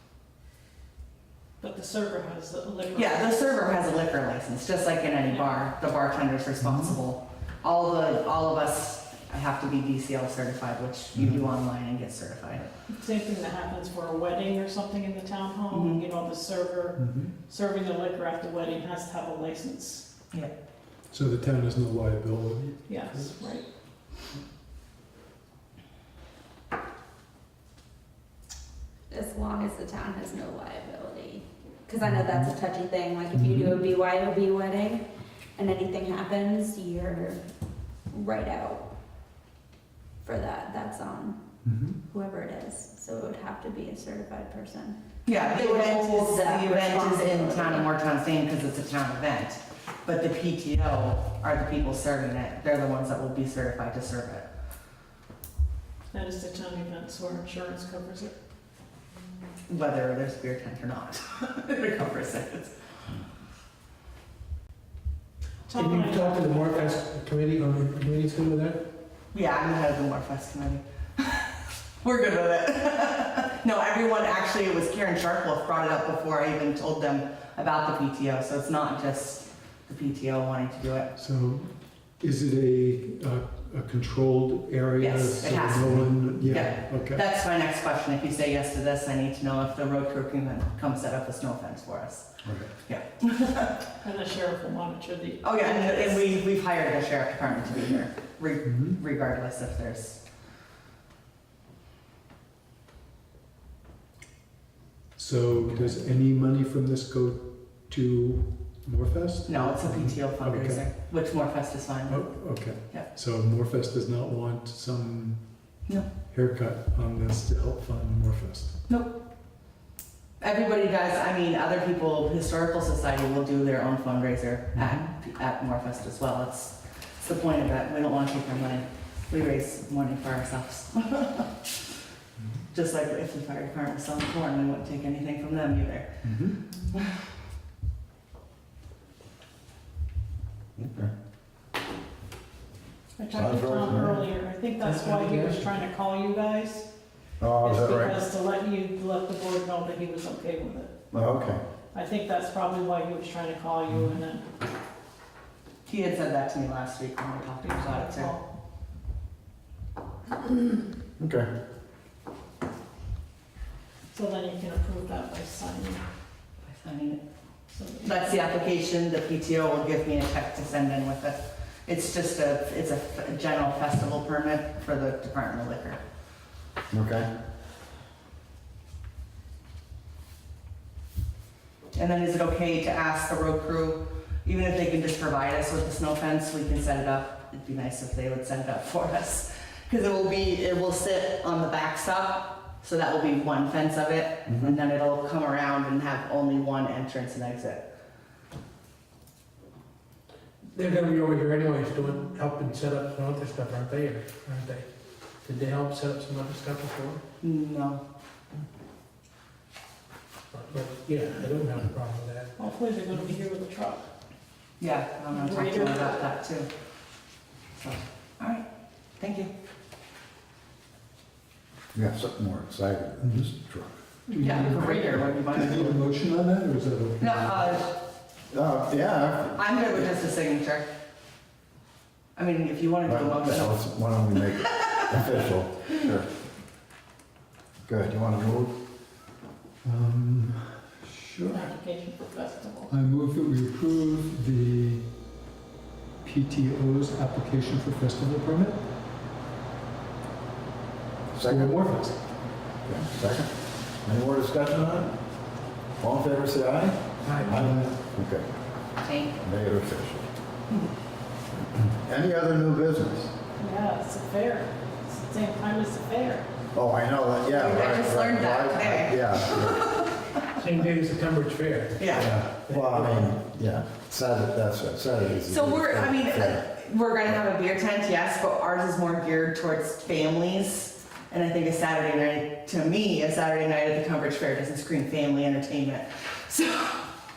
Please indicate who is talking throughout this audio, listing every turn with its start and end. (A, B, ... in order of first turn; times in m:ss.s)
0:01.6-0:03.6 A
0:02.9-0:12.7 B
0:06.6-0:07.0 C
0:12.9-0:20.0 A
0:15.7-0:16.0 B
0:17.0-0:17.3 C
0:21.1-0:23.5 C
0:22.8-0:23.7 A
0:29.1-0:35.0 D
0:32.0-0:32.5 C
0:33.3-0:33.8 C
0:35.6-0:37.4 D
0:38.1-0:38.9 D
0:40.2-0:41.4 D
0:41.6-0:42.0 C
0:42.0-0:47.9 D
0:45.2-0:54.5 B
0:56.1-0:58.3 A
0:59.7-1:02.7 B
1:05.7-1:07.0 A
1:05.7-1:08.9 E
1:09.3-1:21.1 B
1:21.1-1:27.2 C
1:25.0-1:32.3 B
1:26.0-1:26.6 F
1:32.8-1:33.8 B
1:34.0-1:36.4 A
1:35.4-1:40.2 B
1:38.6-1:39.0 C
1:45.2-1:50.9 C
1:49.4-1:53.1 B
1:52.1-1:55.4 C
1:56.3-1:58.8 C
1:58.9-1:59.2 B
2:00.4-2:11.7 B
2:04.7-2:05.0 C
2:12.7-2:16.3 B
2:16.2-2:16.6 C
2:20.8-2:21.1 F
2:23.2-2:26.9 A
2:23.3-2:24.2 F
2:24.8-2:25.6 E
2:27.4-2:28.2 F
2:27.6-2:30.9 A
2:31.1-2:31.6 F
2:31.9-2:34.4 A
2:35.8-2:38.3 B
2:37.6-2:38.4 A
2:41.2-2:41.5 F
2:44.1-2:46.0 A
2:46.6-2:47.2 B
2:47.7-2:48.4 A
2:48.0-2:56.0 B
2:56.9-2:57.3 F
3:01.9-3:17.9 B
3:14.5-3:14.8 F
3:20.7-3:24.9 E
3:25.4-3:27.2 E
3:27.4-3:28.0 B
3:30.5-3:32.5 E
3:32.6-3:34.1 A
3:34.8-3:36.7 B
3:35.3-3:36.3 A
3:37.8-3:38.6 B
3:39.2-3:39.5 B
3:41.9-3:43.9 F
3:43.2-3:43.5 C
3:44.3-3:47.9 C
3:44.4-3:46.0 B
3:47.2-3:47.9 B
3:48.5-3:49.6 F
3:49.5-3:50.9 B
3:52.4-3:53.8 B
3:53.0-3:56.3 F
3:57.8-3:58.7 F
3:59.8-4:01.7 C
4:01.5-4:02.9 A
4:02.9-4:05.1 C
4:06.2-4:08.8 C
4:11.3-4:11.8 F
4:11.4-4:12.1 C
4:12.8-4:13.5 F
4:14.0-4:15.1 F
4:16.0-4:18.5 F
4:17.2-4:17.6 E
4:17.6-4:17.9 C
4:19.0-4:19.4 B
4:19.4-4:20.3 F
4:21.7-4:23.3 F
4:23.6-4:26.4 A
4:26.7-4:29.8 F
4:27.5-4:30.4 B
4:30.6-4:33.2 E
4:32.0-4:32.3 B
4:32.1-4:36.6 F
4:35.4-4:47.1 B